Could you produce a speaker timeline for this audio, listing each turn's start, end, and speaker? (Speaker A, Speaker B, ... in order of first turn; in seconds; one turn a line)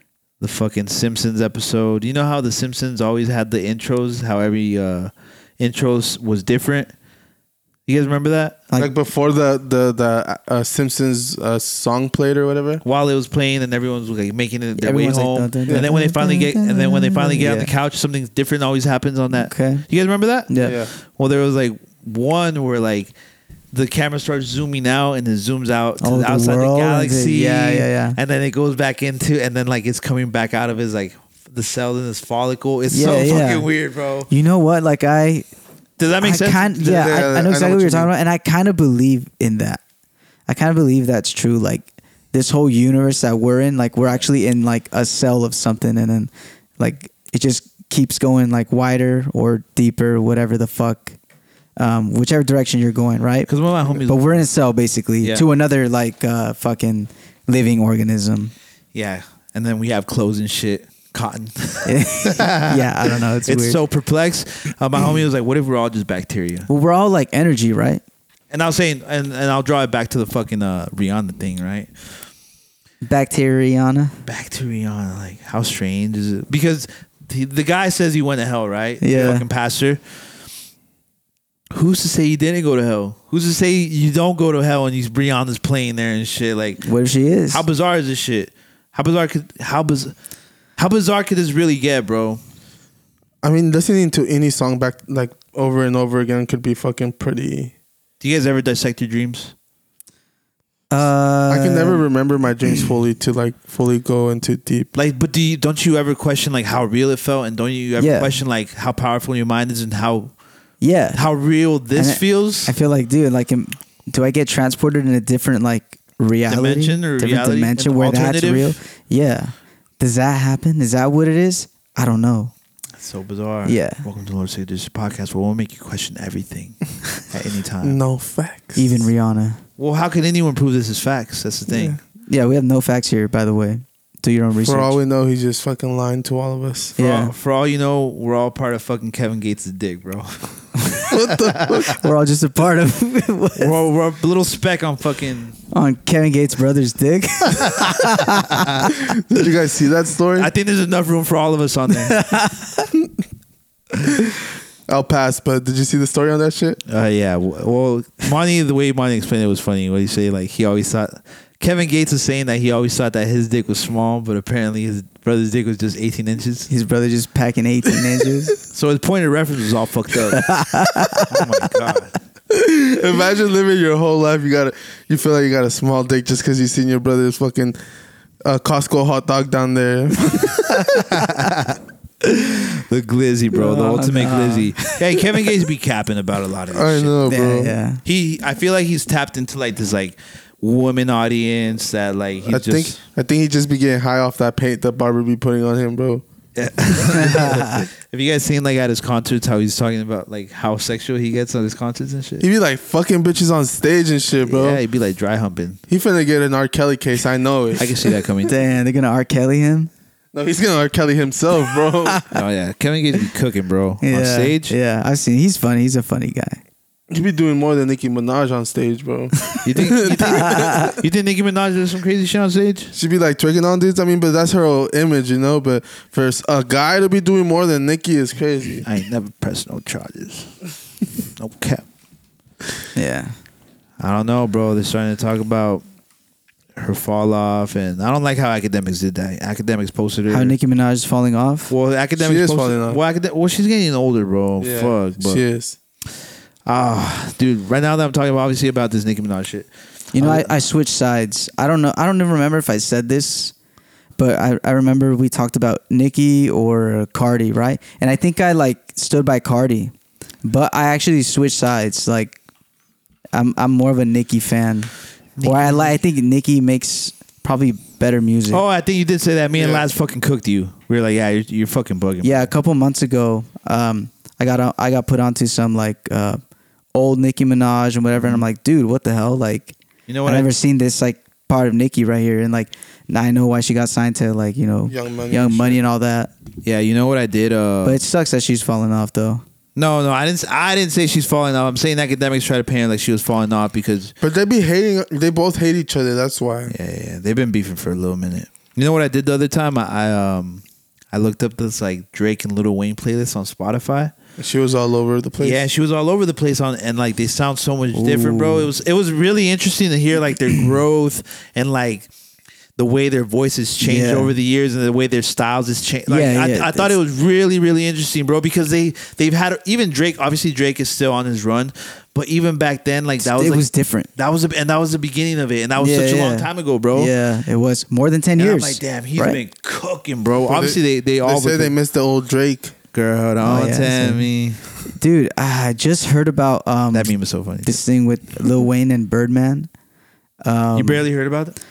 Speaker A: 0.4-6.9
Speaker A: 7.9-8.7
Speaker B: 8.8-12.8
Speaker A: 12.8-23.1
Speaker C: 14.8-17.7
Speaker C: 19.3-19.9
Speaker C: 20.5-20.8
Speaker B: 20.6-20.9
Speaker A: 23.7-34.3
Speaker C: 26.0-28.2
Speaker C: 32.9-33.7
Speaker C: 34.3-35.5
Speaker A: 36.0-37.1
Speaker C: 36.2-39.8
Speaker B: 36.8-38.1
Speaker C: 40.5-51.2
Speaker C: 51.8-53.5
Speaker A: 53.5-54.4
Speaker C: 54.1-58.5
Speaker A: 58.9-66.7
Speaker C: 61.9-63.8
Speaker C: 66.7-68.0
Speaker A: 68.5-72.1
Speaker C: 73.0-74.2
Speaker A: 74.3-80.0
Speaker C: 79.0-79.5
Speaker A: 81.7-86.9
Speaker C: 86.8-87.6
Speaker A: 87.5-90.1
Speaker A: 90.8-92.4
Speaker B: 93.4-97.7
Speaker A: 98.2-99.5
Speaker C: 100.9-102.0
Speaker B: 101.5-104.9
Speaker A: 104.9-110.3
Speaker C: 108.0-108.4
Speaker C: 110.8-111.2
Speaker A: 111.1-112.7
Speaker C: 112.0-122.5
Speaker A: 116.5-118.8
Speaker A: 123.0-128.0
Speaker C: 123.7-124.0
Speaker B: 127.8-129.0
Speaker C: 128.8-129.6
Speaker A: 129.8-132.0
Speaker B: 131.7-132.0
Speaker C: 132.3-135.0
Speaker B: 134.6-136.9
Speaker C: 137.0-137.3
Speaker A: 137.0-140.5
Speaker B: 141.1-142.0
Speaker C: 142.0-143.7
Speaker A: 143.6-145.6
Speaker C: 145.7-148.9
Speaker B: 149.1-150.5
Speaker A: 150.4-152.2
Speaker C: 152.1-152.9
Speaker B: 154.9-156.8
Speaker A: 156.9-166.7
Speaker C: 166.7-168.5
Speaker A: 168.7-172.1
Speaker C: 170.3-171.4
Speaker B: 172.5-177.8
Speaker B: 178.4-180.6
Speaker A: 181.0-187.2
Speaker C: 183.5-184.9
Speaker B: 186.7-187.8
Speaker C: 187.3-188.0
Speaker A: 188.1-193.0
Speaker B: 192.5-196.2
Speaker A: 196.6-202.5
Speaker C: 197.1-197.9
Speaker B: 202.4-204.8
Speaker A: 204.4-205.8
Speaker B: 205.9-208.2
Speaker A: 207.8-208.6
Speaker C: 208.5-209.9
Speaker B: 210.3-212.3
Speaker A: 212.3-214.8
Speaker C: 214.0-216.6
Speaker B: 217.1-220.9
Speaker A: 219.6-222.9
Speaker C: 220.2-221.0
Speaker B: 222.9-228.8
Speaker A: 228.8-230.6
Speaker A: 231.4-231.8
Speaker C: 232.9-233.3
Speaker A: 234.0-235.8
Speaker A: 236.8-240.6
Speaker C: 240.3-241.7
Speaker A: 241.7-245.4
Speaker B: 242.2-243.0
Speaker B: 244.6-245.8
Speaker A: 246.7-250.5
Speaker C: 250.1-253.5
Speaker C: 254.2-259.9
Speaker C: 260.4-262.4
Speaker C: 263.3-268.6
Speaker A: 265.4-265.9
Speaker A: 268.5-272.5
Speaker B: 269.5-269.9
Speaker C: 272.2-276.4
Speaker C: 276.9-286.3
Speaker A: 278.2-278.4
Speaker A: 280.1-280.5
Speaker B: 284.9-285.8
Speaker A: 286.6-288.0
Speaker C: 287.8-289.4
Speaker A: 289.8-294.1
Speaker B: 294.2-296.7
Speaker A: 296.7-304.1
Speaker B: 304.4-305.6
Speaker A: 305.4-312.1
Speaker C: 307.9-308.7
Speaker A: 312.8-327.1
Speaker C: 313.8-314.3
Speaker C: 316.1-316.9
Speaker C: 323.2-324.1
Speaker C: 325.8-329.4
Speaker A: 328.4-331.7
Speaker B: 330.4-332.8
Speaker A: 332.9-334.6
Speaker C: 333.4-334.3
Speaker C: 334.9-339.7
Speaker A: 336.9-337.8
Speaker C: 340.4-341.1
Speaker A: 340.7-341.6